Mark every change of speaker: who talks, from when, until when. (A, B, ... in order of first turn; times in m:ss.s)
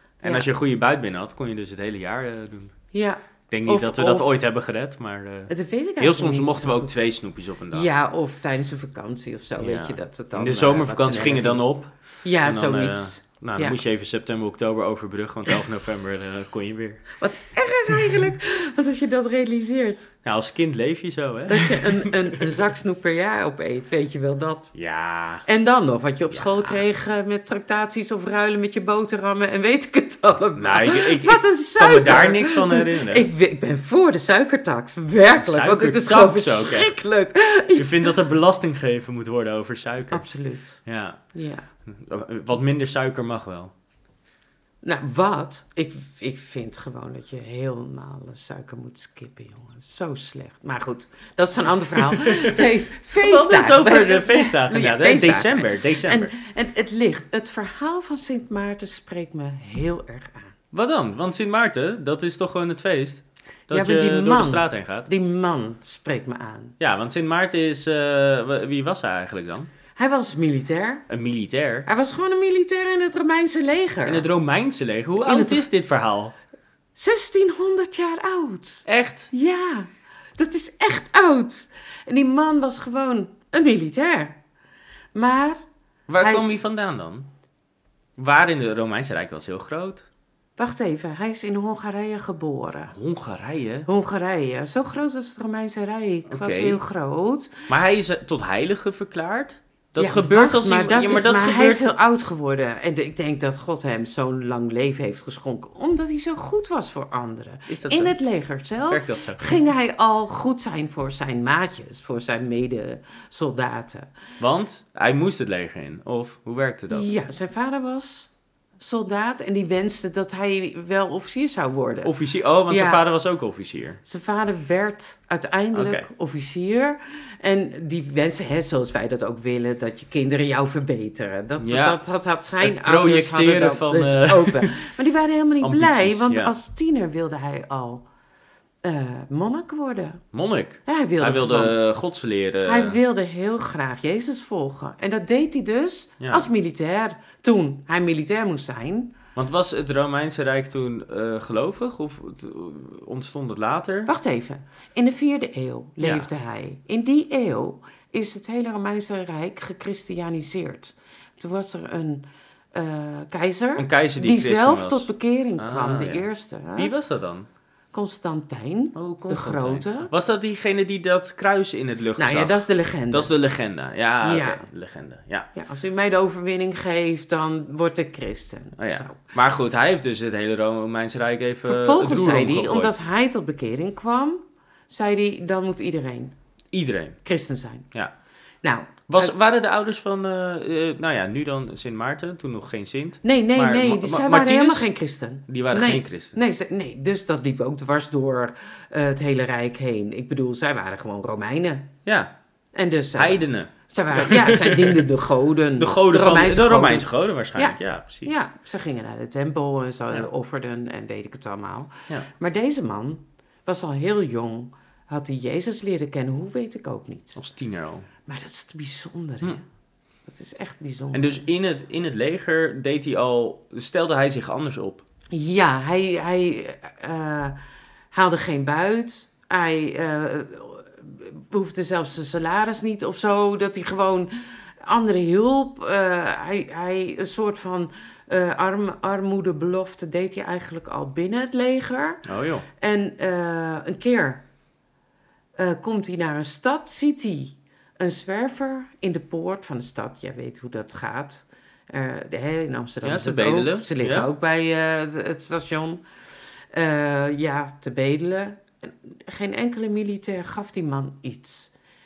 0:00.2-0:02.7 A
0:02.9-0:04.4 B
0:03.5-0:07.9 A
0:05.5-0:07.0 B
0:07.7-0:11.6 B
0:09.6-0:17.0 A
0:12.2-0:13.8 B
0:17.2-0:20.1 B
0:20.2-0:22.6 A
0:21.5-0:24.7 B
0:24.7-0:25.4 A
0:25.4-0:38.1 B
0:26.3-0:26.8 A
0:30.6-0:33.3 A
0:35.3-0:36.9 A
0:37.7-0:40.2 A
0:40.1-0:40.8 B
0:40.8-0:41.2 A
0:41.3-0:41.6 B
0:41.9-0:43.7 A
0:44.8-1:00.5 B
0:52.0-0:56.3 A
1:00.7-1:05.1 A
1:03.7-1:06.7 B
1:06.8-1:09.7 A
1:10.0-1:11.0 B
1:11.1-1:11.9 A
1:11.8-1:14.3 B
1:14.0-1:16.3 A
1:15.2-1:15.6 B
1:17.0-1:24.4 B
1:18.8-1:19.3 A
1:25.1-1:25.6 B
1:26.1-1:27.3 A
1:26.2-1:26.4 B
1:28.2-1:30.0 A
1:30.6-1:32.9 B
1:32.9-1:33.9 A
1:33.9-1:37.7 B
1:36.2-1:36.8 A
1:37.7-1:41.9 A
1:40.0-1:54.1 B
1:47.7-1:48.1 A
1:48.9-1:49.6 A
1:54.4-1:57.1 A
1:56.9-2:02.1 B
2:02.0-2:04.0 A
2:02.7-2:03.0 B
2:04.0-2:18.0 B
2:05.7-2:06.1 A
2:11.6-2:12.0 A
2:12.6-2:14.7 A
2:15.6-2:16.5 A
2:18.8-2:20.2 B
2:20.3-2:23.0 A
2:20.8-2:21.8 B
2:22.6-2:29.2 B
2:26.2-2:26.5 A
2:29.4-2:34.1 A
2:34.0-2:46.9 B
2:36.0-2:36.3 A
2:43.8-2:47.5 A
2:47.9-2:50.1 B
2:48.9-2:55.5 A
2:52.2-2:53.3 B
2:54.2-2:54.6 B
2:55.5-2:59.3 B
2:58.8-3:02.9 A
3:01.6-3:06.3 B
3:06.7-3:07.2 A
3:07.2-3:07.9 B
3:08.6-3:09.3 B
3:09.1-3:14.9 A
3:13.2-3:21.9 B
3:15.5-3:16.4 A
3:22.0-3:22.3 A
3:22.7-3:37.4 B
3:23.2-3:25.1 A
3:25.8-3:28.3 A
3:37.4-3:38.1 A
3:38.2-3:39.6 B
3:40.3-3:41.4 B
3:41.1-3:45.0 A
3:45.3-3:47.6 B
3:48.1-4:02.2 B
4:02.2-4:02.6 A
4:02.8-4:04.4 B
4:05.6-4:16.0 B
4:13.0-4:14.3 A
4:16.7-4:21.7 B